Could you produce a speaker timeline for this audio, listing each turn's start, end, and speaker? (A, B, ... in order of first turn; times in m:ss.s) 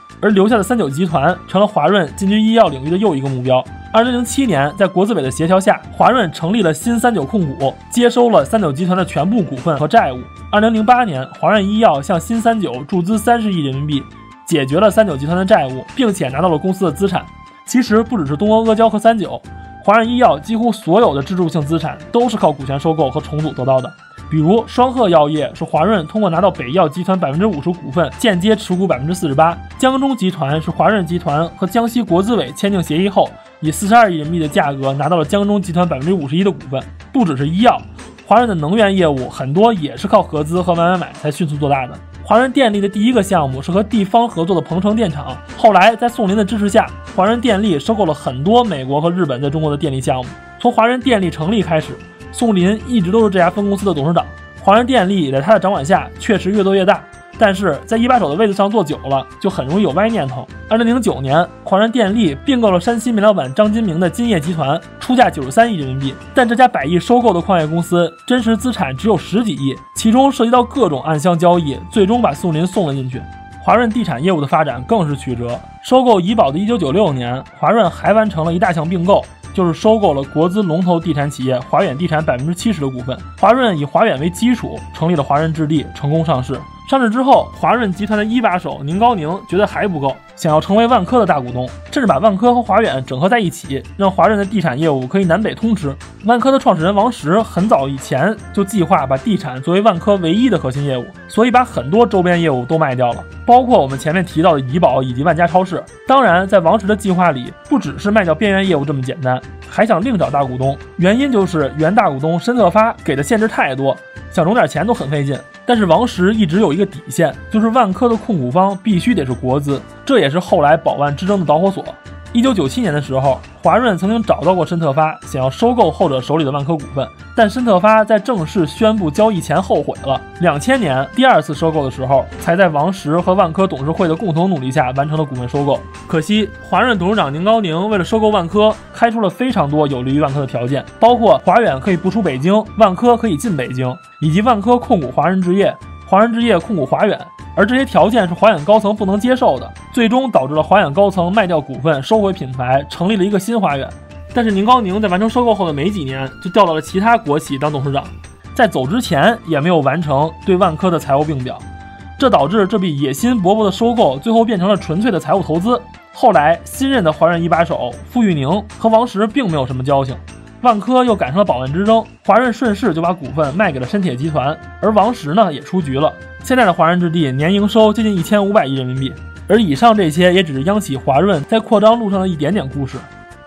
0:00.2-2:41.6 A
2:42.2-3:03.1 A